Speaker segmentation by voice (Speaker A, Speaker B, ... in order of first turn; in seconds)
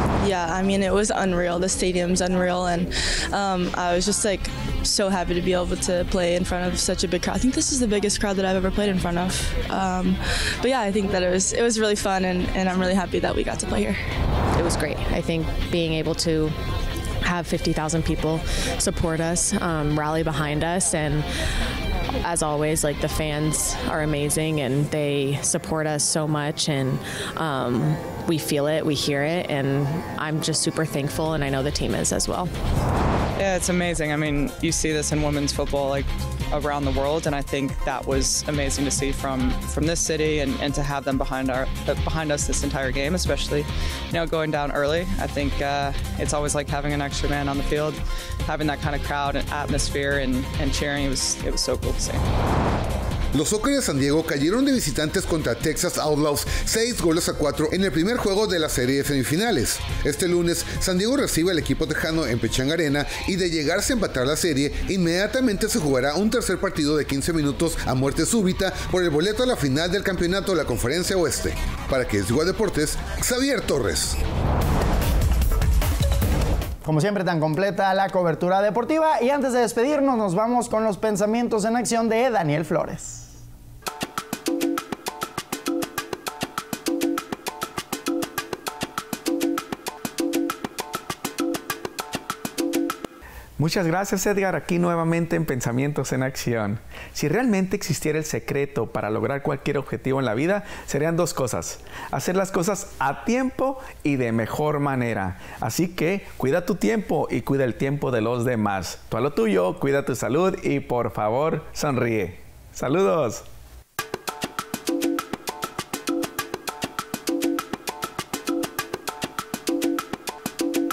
Speaker A: 0.2-14.0
Speaker B: 14.6-16.6, 17.2-21.3, 22.2-32.5
Speaker C: 33.4-52.2
Speaker D: 53.3-74.2
Speaker E: 76.8-83.4
Speaker F: 93.6-113.5